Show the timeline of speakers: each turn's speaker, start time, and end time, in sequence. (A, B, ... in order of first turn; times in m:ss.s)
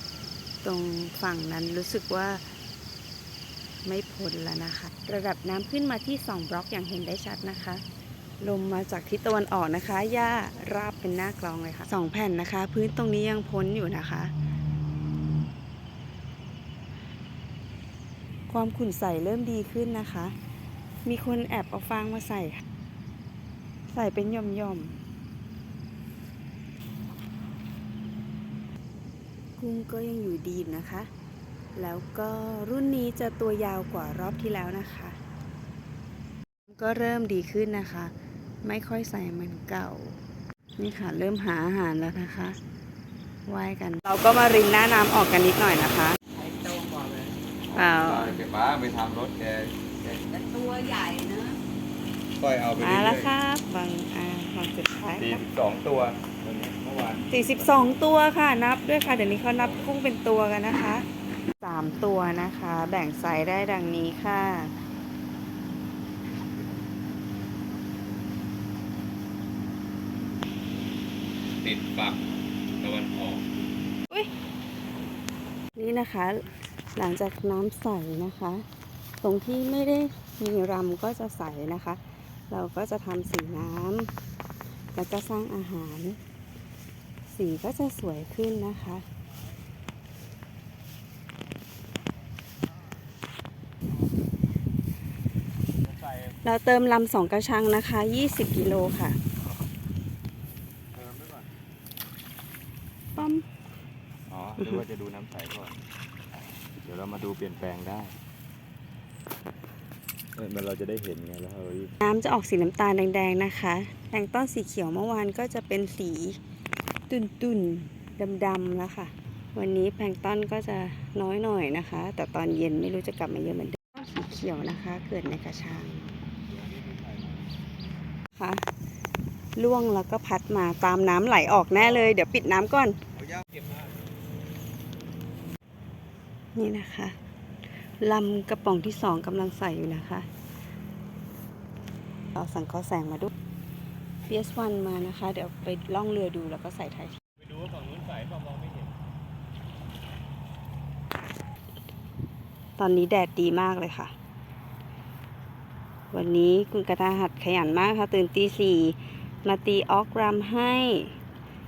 0:00.6-0:02.4 A
0:03.8-0:07.8 A
0:08.4-0:14.3 A
0:18.5-0:20.4 A
0:21.0-0:22.6 A
0:23.9-0:25.0 A
0:29.6-0:31.1 A
0:31.8-0:35.2 A
0:36.7-0:40.2 A
0:40.8-0:42.6 A
0:43.5-0:46.2 A
0:46.4-0:47.4 B
0:47.7-0:48.4 A
0:47.8-0:50.2 C
0:50.3-0:51.6 B
0:52.4-0:53.3 C
0:52.8-0:55.4 A
0:55.2-0:58.1 C
0:57.3-1:01.1 A
0:59.1-0:59.9 C
1:01.6-1:04.7 A
1:11.6-1:12.2 C
1:12.8-1:13.5 C
1:15.8-1:16.4 A
1:17.0-1:18.6 A
1:19.2-1:22.0 A
1:22.5-1:24.1 A
1:25.0-1:26.2 A
1:27.3-1:29.0 A
1:36.4-1:39.2 A
1:41.0-1:41.4 C
1:43.2-1:43.4 A
1:44.3-1:45.8 C
1:46.8-1:48.1 C
1:50.4-1:51.9 C
1:52.0-1:56.4 A
1:57.1-2:06.2 A
2:06.5-2:07.4 C
2:08.4-2:08.6 A
2:09.6-2:13.0 A
2:13.3-2:13.8 C
2:16.6-2:17.2 A
2:18.0-2:20.3 A
2:22.3-2:23.3 A
2:24.3-2:27.2 A
2:27.4-2:28.9 C
2:32.8-2:34.1 A
2:36.1-2:41.1 A